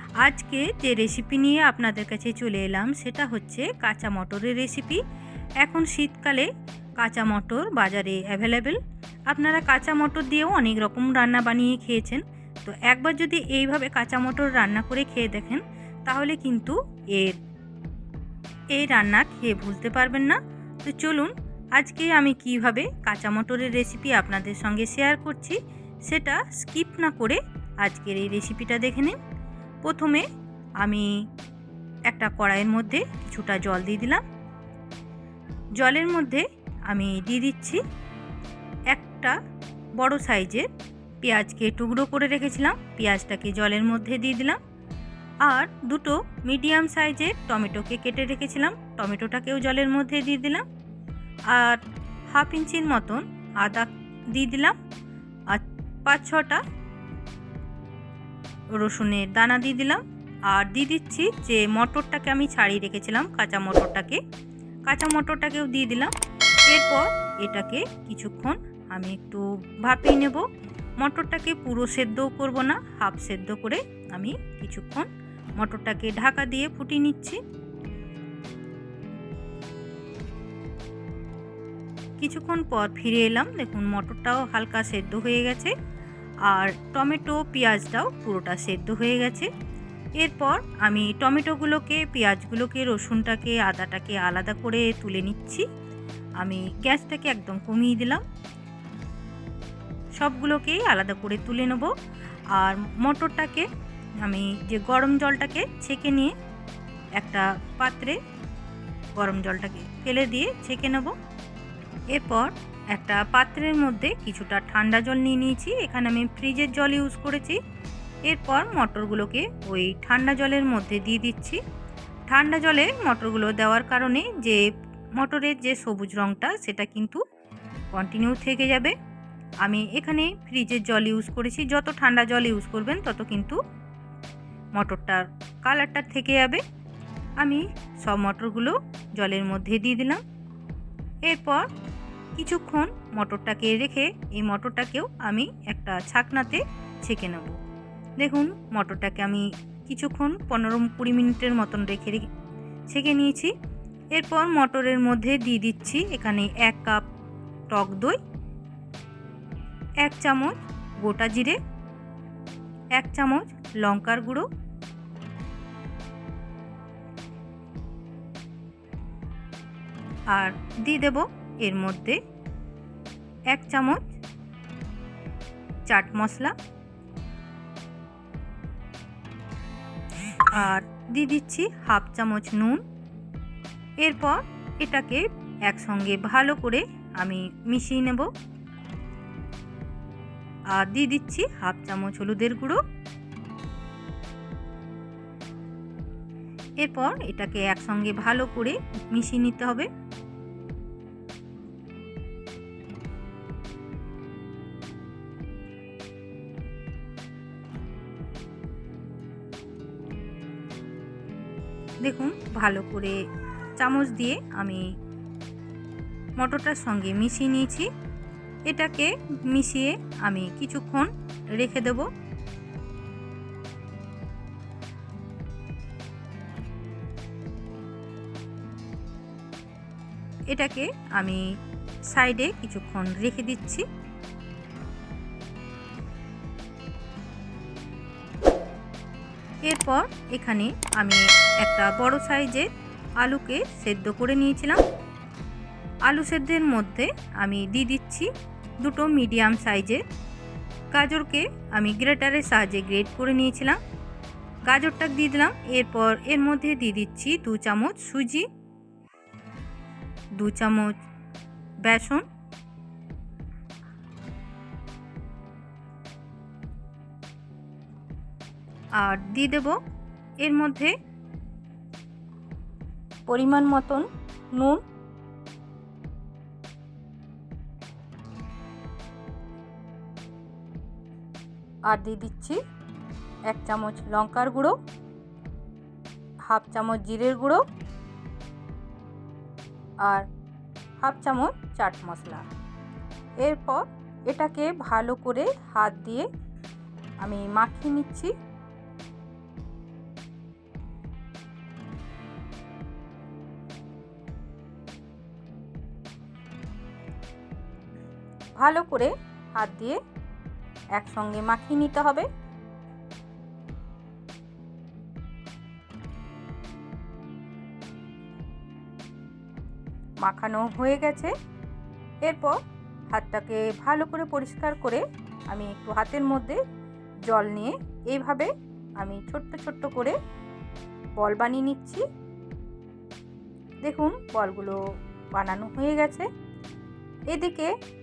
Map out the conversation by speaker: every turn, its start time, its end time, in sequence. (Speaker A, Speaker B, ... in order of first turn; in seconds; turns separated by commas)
Speaker A: 0.2-5.0, Speaker A: 5.6-8.8, Speaker A: 9.3-17.4, Speaker A: 18.7-29.2, Speaker A: 29.8-30.3, Speaker A: 30.8-31.1, Speaker A: 32.1-34.2, Speaker A: 35.8-37.8, Speaker A: 38.9-39.4, Speaker A: 40.0-40.7, Speaker A: 41.2-44.6, Speaker A: 45.4-50.6, Speaker A: 51.5-54.8, Speaker A: 55.5-56.6, Speaker A: 58.8-64.2, Speaker A: 64.8-66.1, Speaker A: 66.7-70.5, Speaker A: 71.0-77.4, Speaker A: 82.2-85.7, Speaker A: 86.5-89.5, Speaker A: 90.2-95.7, Speaker A: 96.4-98.2, Speaker A: 100.2-101.9, Speaker A: 102.5-103.7, Speaker A: 104.2-106.3, Speaker A: 107.2-108.2, Speaker A: 109.1-111.1, Speaker A: 112.1-117.6, Speaker A: 118.3-121.6, Speaker A: 122.3-124.6, Speaker A: 125.2-127.2, Speaker A: 127.9-128.9, Speaker A: 129.6-133.6, Speaker A: 134.8-136.6, Speaker A: 137.4-140.2, Speaker A: 141.2-141.7, Speaker A: 142.3-147.6, Speaker A: 148.2-152.3, Speaker A: 152.9-153.5, Speaker A: 154.1-157.0, Speaker A: 157.7-158.2, Speaker A: 160.0-161.6, Speaker A: 162.9-164.4, Speaker A: 170.3-172.2, Speaker A: 173.5-174.1, Speaker A: 175.8-176.5, Speaker A: 180.5-182.8, Speaker A: 184.0-188.3, Speaker A: 190.7-192.8, Speaker A: 196.8-199.9, Speaker A: 212.0-213.2, Speaker A: 213.8-214.9, Speaker A: 216.4-217.9, Speaker A: 218.7-222.1, Speaker A: 230.5-231.5, Speaker A: 232.1-233.8, Speaker A: 239.6-242.7, Speaker A: 243.2-244.8, Speaker A: 246.0-248.3, Speaker A: 248.8-250.0, Speaker A: 250.9-253.8, Speaker A: 254.7-258.4, Speaker A: 260.4-260.9, Speaker A: 261.8-262.2, Speaker A: 269.0-269.8, Speaker A: 270.4-270.9, Speaker A: 273.3-274.8, Speaker A: 281.9-282.6, Speaker A: 283.5-284.7, Speaker A: 286.5-287.6, Speaker A: 291.0-292.4, Speaker A: 293.4-296.3, Speaker A: 297.2-298.3, Speaker A: 308.6-310.0, Speaker A: 310.9-312.3, Speaker A: 320.2-321.3, Speaker A: 322.2-322.6, Speaker A: 323.1-326.6, Speaker A: 327.3-330.2, Speaker A: 331.2-332.0, Speaker A: 333.8-334.8, Speaker A: 335.3-336.3, Speaker A: 337.3-337.7